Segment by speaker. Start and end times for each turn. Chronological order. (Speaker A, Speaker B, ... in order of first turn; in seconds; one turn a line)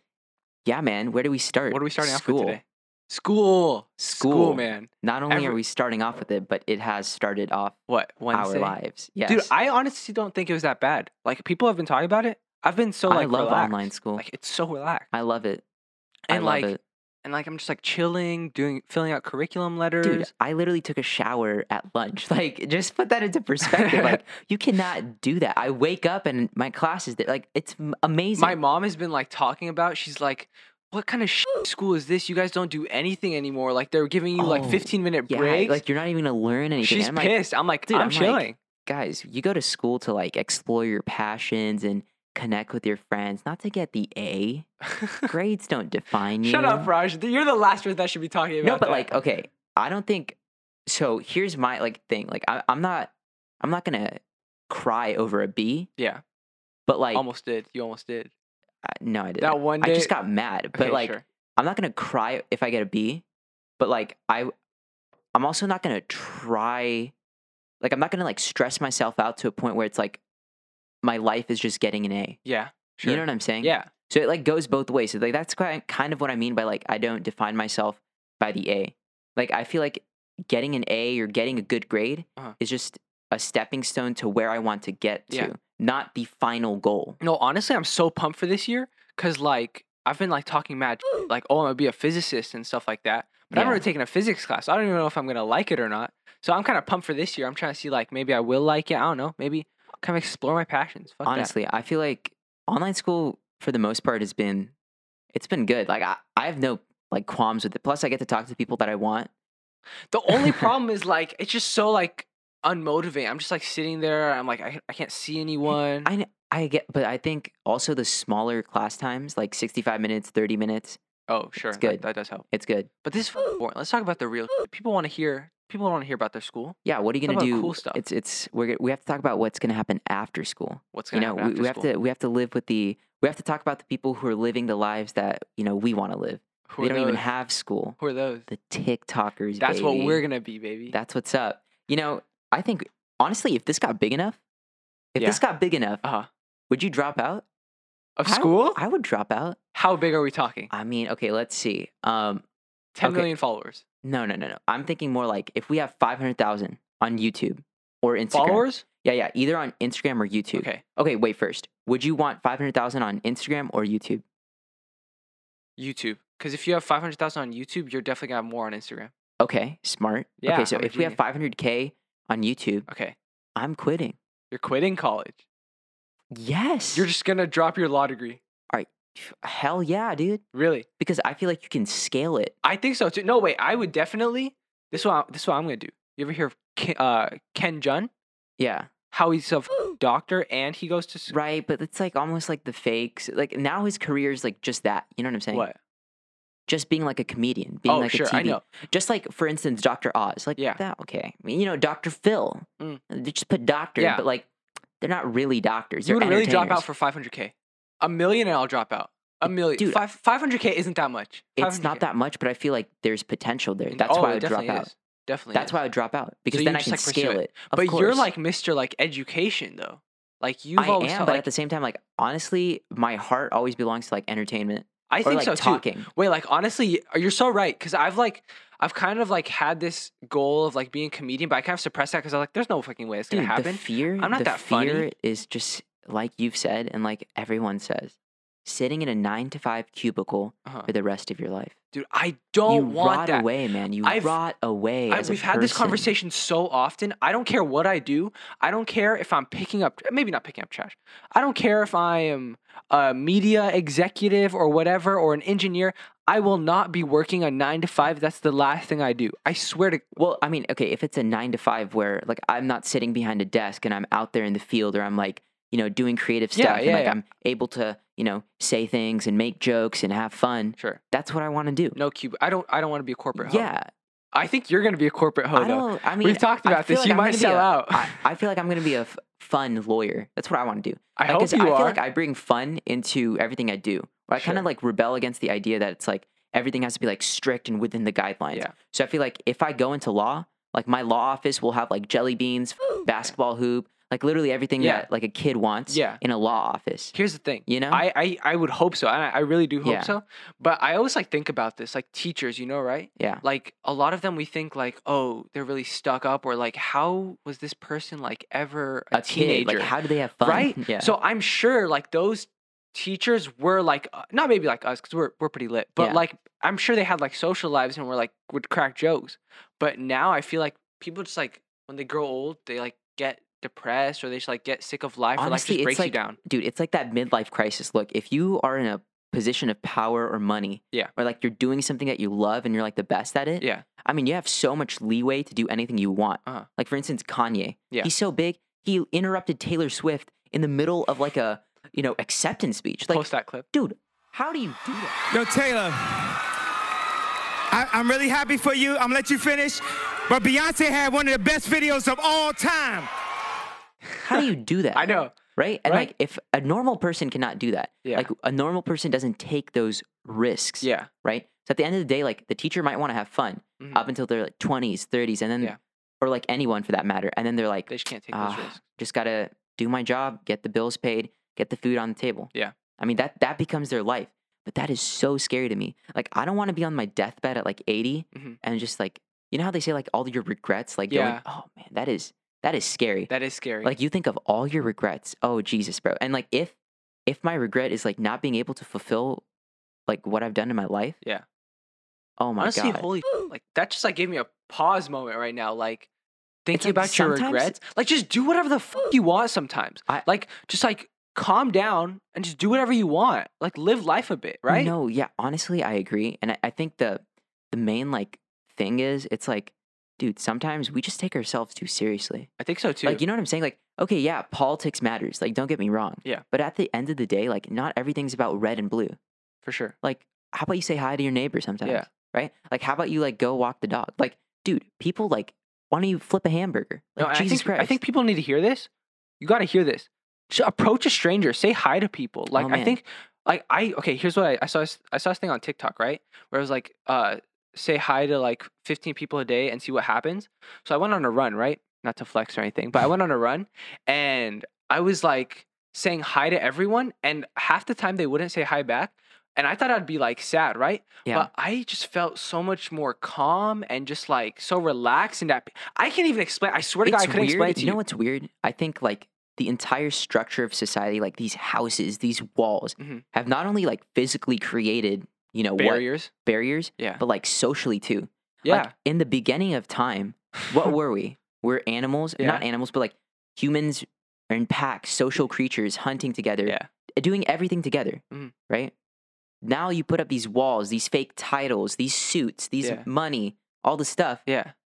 Speaker A: 0.7-2.6
Speaker B: 1.7-5.6
Speaker A: 4.1-7.8
Speaker B: 7.9-8.8
Speaker A: 8.3-9.5
Speaker B: 9.3-15.1
Speaker A: 13.1-14.2
Speaker A: 15.1-15.6
Speaker B: 16.3-16.7
Speaker A: 16.3-16.8
Speaker B: 17.2-20.3
Speaker A: 20.0-28.6
Speaker B: 23.6-24.2
Speaker B: 28.4-35.8
Speaker A: 34.4-37.3
Speaker B: 36.8-38.6
Speaker A: 37.9-44.7
Speaker B: 45.0-45.3
Speaker A: 45.2-46.9
Speaker B: 46.4-49.2
Speaker A: 48.6-55.9
Speaker B: 56.0-56.2
Speaker A: 56.9-57.2
Speaker B: 57.1-58.3
Speaker A: 58.8-63.2
Speaker B: 59.4-60.1
Speaker B: 60.7-61.2
Speaker A: 63.8-64.5
Speaker A: 65.3-67.1
Speaker A: 67.8-70.2
Speaker A: 71.0-72.4
Speaker B: 72.4-73.9
Speaker A: 73.0-87.2
Speaker B: 87.2-101.5
Speaker A: 93.5-93.8
Speaker A: 101.2-104.7
Speaker A: 105.3-109.3
Speaker B: 110.1-116.1
Speaker A: 116.0-121.0
Speaker B: 121.3-122.5
Speaker A: 121.6-122.9
Speaker B: 123.0-128.0
Speaker A: 126.8-140.2
Speaker B: 130.9-131.9
Speaker B: 136.7-137.2
Speaker B: 138.0-138.4
Speaker B: 139.6-140.9
Speaker A: 140.9-144.4
Speaker A: 145.1-146.0
Speaker A: 146.7-147.4
Speaker B: 148.2-148.8
Speaker A: 148.2-149.6
Speaker B: 149.7-150.7
Speaker A: 150.7-152.4
Speaker B: 152.9-153.8
Speaker A: 153.0-153.3
Speaker A: 154.0-164.2
Speaker B: 158.3-158.8
Speaker B: 160.5-160.8
Speaker B: 165.8-169.1
Speaker A: 169.4-172.8
Speaker B: 170.4-171.2
Speaker B: 172.9-173.1
Speaker A: 173.6-174.2
Speaker B: 174.5-175.4
Speaker A: 176.3-177.1
Speaker B: 176.9-178.4
Speaker A: 178.7-180.4
Speaker B: 180.5-180.8
Speaker A: 181.0-182.5
Speaker B: 182.6-188.1
Speaker A: 188.6-188.9
Speaker B: 189.1-191.3
Speaker A: 191.3-195.7
Speaker A: 196.7-204.5
Speaker B: 197.9-198.6
Speaker B: 204.0-204.2
Speaker A: 205.0-206.8
Speaker B: 206.0-212.0
Speaker A: 209.5-210.0
Speaker A: 211.6-214.9
Speaker B: 213.9-215.8
Speaker A: 215.5-218.3
Speaker B: 216.5-221.5
Speaker A: 220.8-226.1
Speaker B: 225.1-235.1
Speaker A: 233.3-241.7
Speaker B: 241.9-243.5
Speaker A: 242.7-246.1
Speaker B: 244.0-244.4
Speaker B: 245.1-260.0
Speaker A: 260.2-272.0
Speaker B: 266.6-267.2
Speaker B: 271.9-273.7
Speaker A: 273.4-273.9
Speaker B: 274.3-278.2
Speaker A: 275.5-297.1
Speaker B: 281.2-282.0
Speaker B: 284.4-284.6
Speaker B: 294.8-295.1
Speaker B: 295.9-296.2
Speaker B: 297.1-309.9
Speaker A: 297.6-298.0
Speaker A: 299.8-300.1
Speaker A: 303.2-303.4
Speaker A: 309.1-311.1
Speaker B: 310.4-326.4
Speaker A: 325.4-345.2
Speaker B: 333.6-333.9
Speaker B: 343.1-343.7
Speaker C: 345.3-346.4
Speaker C: 347.7-353.1
Speaker B: 354.2-356.1
Speaker A: 354.2-383.3
Speaker B: 358.0-358.3
Speaker B: 360.8-361.1
Speaker B: 367.9-368.8
Speaker B: 378.3-378.6
Speaker B: 381.1-381.4
Speaker B: 383.3-383.9
Speaker A: 383.8-386.7
Speaker A: 387.3-389.4
Speaker A: 390.1-391.2
Speaker A: 392.4-393.1
Speaker B: 392.6-396.1
Speaker B: 396.6-404.9
Speaker A: 396.7-397.8
Speaker A: 404.7-412.5
Speaker B: 412.6-413.2
Speaker A: 413.0-419.2
Speaker B: 419.6-419.9
Speaker A: 420.0-428.0
Speaker B: 427.2-428.9
Speaker B: 429.4-458.0
Speaker A: 432.5-433.0
Speaker A: 457.0-478.9
Speaker B: 463.0-463.2
Speaker B: 465.8-466.3
Speaker B: 468.6-468.9
Speaker B: 472.4-472.6
Speaker A: 479.6-484.4
Speaker B: 484.5-484.7